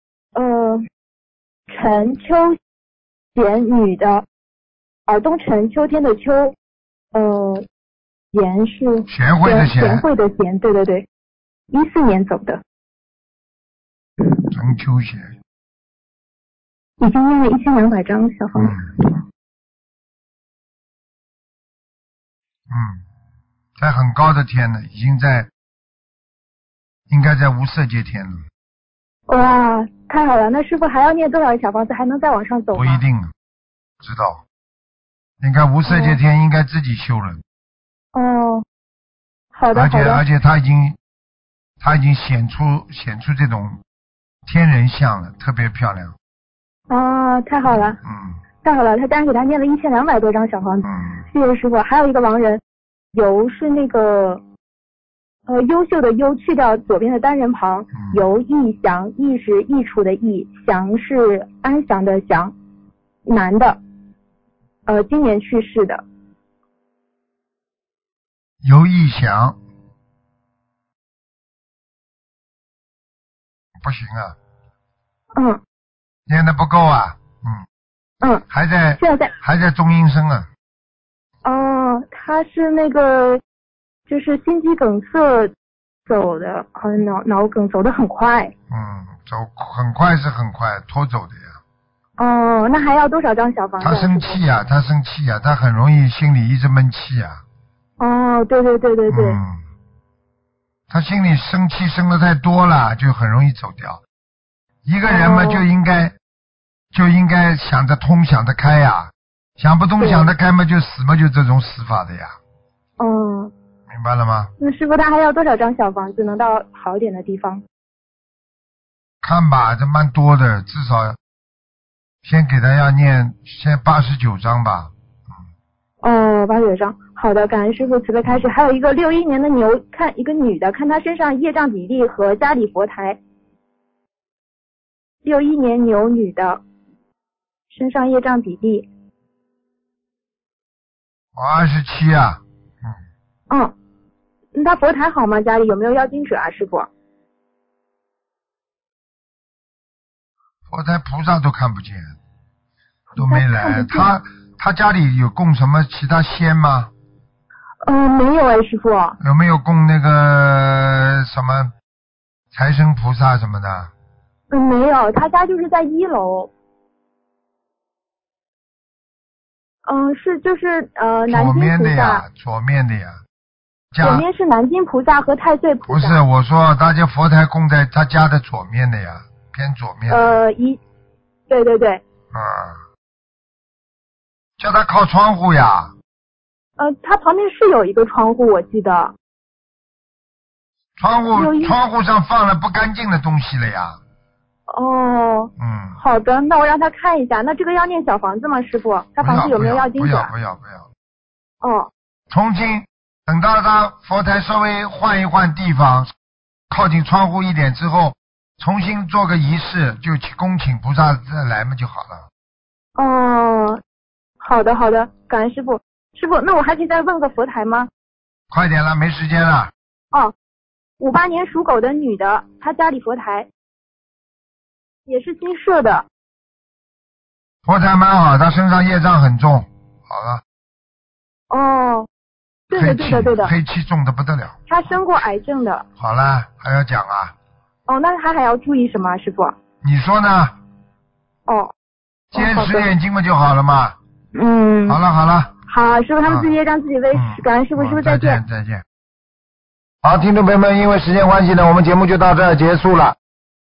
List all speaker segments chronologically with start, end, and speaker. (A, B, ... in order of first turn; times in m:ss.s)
0:00.3-0:00.8 A
0:01.7-0:02.6 A
0:03.4-0:04.2 A
0:05.1-0:06.5 A
0:07.1-0:07.6 A
0:08.3-0:11.0 A
0:09.1-0:10.0 B
0:11.7-0:12.6 A
0:14.5-0:15.3 B
0:17.0-0:18.8 A
0:18.6-0:19.2 B
0:22.7-0:23.0 B
0:23.8-0:25.5 B
0:27.1-0:28.4 B
0:29.3-0:33.0 A
0:32.7-0:33.3 B
0:34.0-0:34.4 B
0:35.4-0:37.4 B
0:35.9-0:36.2 A
0:38.1-0:38.6 A
0:39.5-0:40.2 A
0:39.7-0:41.0 B
0:41.8-0:43.8 B
0:44.4-0:46.1 B
0:46.9-0:48.0 A
0:47.7-0:48.4 B
0:48.6-0:52.6 A
0:50.8-0:51.2 B
0:53.1-0:54.4 A
0:55.5-1:02.5 A
0:58.0-0:58.2 B
1:03.2-1:03.8 A
1:04.9-1:06.0 A
1:08.6-1:09.6 B
1:13.8-1:14.4 B
1:16.3-1:17.6 B
1:18.5-1:20.5 B
1:19.0-1:19.3 A
1:21.4-1:23.4 A
1:24.1-1:25.5 A
1:26.1-1:28.5 A
1:28.7-1:31.6 B
1:32.2-1:34.4 A
1:33.8-1:37.4 B
1:38.0-1:39.4 A
1:39.1-1:39.6 B
1:40.9-1:44.0 B
1:44.8-1:46.1 B
1:45.0-1:45.6 A
1:46.9-1:52.3 B
1:50.0-1:50.2 A
1:53.0-1:53.5 A
1:53.9-1:54.5 B
1:54.6-1:57.6 A
1:59.2-2:01.2 B
2:02.2-2:04.9 B
2:06.0-2:13.2 A
2:15.2-2:16.6 A
2:17.7-2:18.8 A
2:21.3-2:22.9 B
2:24.5-2:26.9 A
2:30.7-2:32.2 B
2:33.2-2:34.1 A
2:33.2-2:36.9 B
2:37.8-2:39.2 A
2:39.2-2:41.7 B
2:42.5-2:43.9 B
2:44.5-2:46.5 A
2:49.8-2:52.2 A
2:51.3-2:53.2 B
2:53.9-2:54.2 B
2:54.0-2:56.2 A
2:55.9-3:00.4 B
3:00.1-3:00.8 A
3:01.5-3:02.0 A
3:02.3-3:02.8 B
3:04.6-3:05.9 B
3:06.8-3:09.1 A
3:11.0-3:14.0 B
3:11.3-3:11.7 A
3:14.7-3:20.3 A
3:15.6-3:16.0 B
3:19.2-3:20.9 B
3:21.6-3:21.9 A
3:22.3-3:26.1 B
3:26.7-3:32.2 B
3:33.0-3:33.8 A
3:34.4-3:37.9 A
3:38.5-3:39.7 B
3:41.0-3:43.5 A
3:45.1-3:46.0 A
3:47.6-3:50.4 B
3:51.5-3:52.1 A
3:52.7-3:53.5 A
3:52.7-3:54.9 B
3:54.7-3:55.8 A
3:56.0-3:57.3 B
3:57.9-3:59.5 A
3:59.8-4:00.5 B
4:01.5-4:01.7 A
4:02.3-4:04.0 B
4:02.4-4:02.9 A
4:04.3-4:05.0 A
4:04.9-4:05.5 B
4:05.7-4:08.4 A
4:06.2-4:06.5 B
4:07.1-4:08.8 B
4:10.0-4:13.2 B